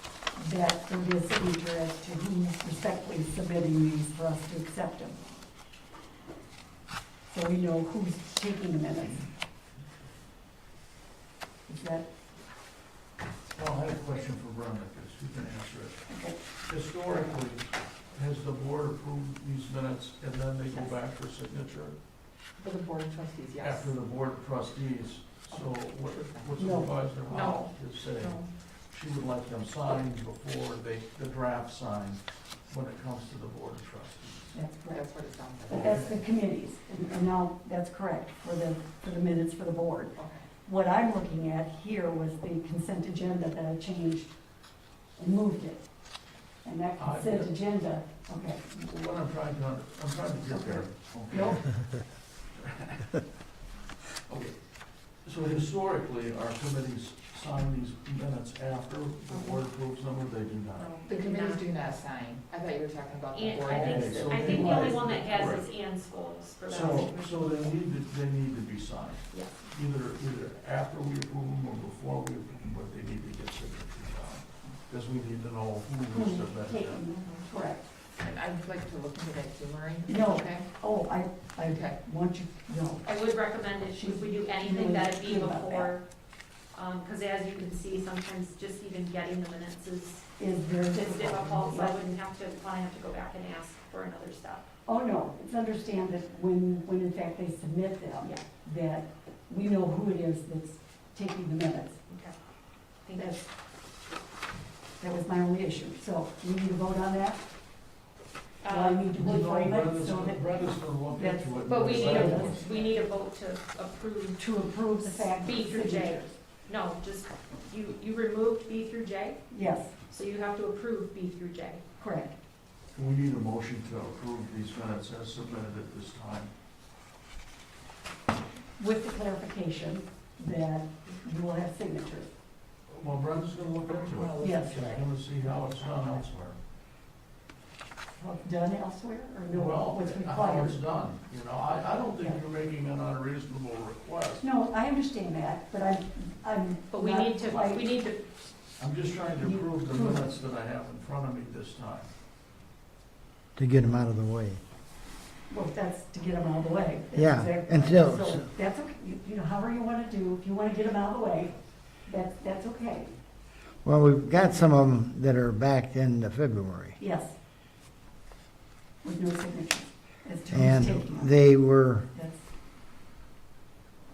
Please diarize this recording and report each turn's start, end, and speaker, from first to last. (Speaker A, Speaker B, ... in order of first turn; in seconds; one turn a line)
Speaker A: 0.4-5.2
Speaker A: 7.3-9.3
Speaker A: 11.7-12.1
Speaker B: 13.5-16.1
Speaker A: 16.1-16.4
Speaker B: 16.6-21.9
Speaker A: 20.7-21.0
Speaker C: 22.6-23.9
Speaker B: 23.6-34.6
Speaker C: 26.1-26.6
Speaker A: 26.6-26.9
Speaker D: 27.3-28.5
Speaker A: 34.5-35.1
Speaker C: 34.9-36.0
Speaker A: 35.7-44.3
Speaker B: 35.7-36.2
Speaker C: 40.2-40.5
Speaker A: 45.2-45.9
Speaker A: 46.6-48.6
Speaker B: 47.0-47.5
Speaker B: 48.7-53.2
Speaker A: 50.5-51.7
Speaker B: 55.2-61.0
Speaker C: 60.8-65.1
Speaker D: 61.0-61.7
Speaker D: 63.3-67.7
Speaker B: 63.6-65.7
Speaker B: 66.7-77.0
Speaker A: 76.1-77.9
Speaker C: 77.2-77.5
Speaker C: 78.2-80.7
Speaker A: 80.1-83.2
Speaker C: 81.6-82.0
Speaker D: 83.0-86.0
Speaker A: 83.9-86.0
Speaker D: 86.7-90.3
Speaker A: 90.4-92.1
Speaker D: 90.9-94.7
Speaker A: 94.9-102.0
Speaker D: 102.1-102.3
Speaker D: 103.1-103.3
Speaker A: 103.2-103.4
Speaker A: 105.0-107.5
Speaker D: 108.6-109.1
Speaker A: 108.7-112.6
Speaker B: 109.1-112.7
Speaker D: 111.6-119.4
Speaker C: 111.9-113.0
Speaker A: 114.4-116.3
Speaker A: 119.5-119.9
Speaker D: 120.0-121.8
Speaker A: 122.0-122.3
Speaker B: 122.9-126.5
Speaker A: 128.8-132.3
Speaker B: 132.9-136.6
Speaker C: 133.9-136.2
Speaker A: 134.4-134.9
Speaker A: 138.2-140.8
Speaker B: 139.5-144.4
Speaker A: 142.1-142.4
Speaker A: 144.4-147.9
Speaker D: 146.9-148.2
Speaker B: 148.8-152.1
Speaker A: 149.4-150.3
Speaker E: 153.6-154.6
Speaker A: 155.5-161.5
Speaker E: 157.2-158.5
Speaker A: 162.1-163.1
Speaker E: 163.8-167.0
Speaker A: 164.4-164.7
Speaker A: 167.0-167.3
Speaker A: 169.0-171.4
Speaker E: 170.5-172.1
Speaker A: 172.1-172.4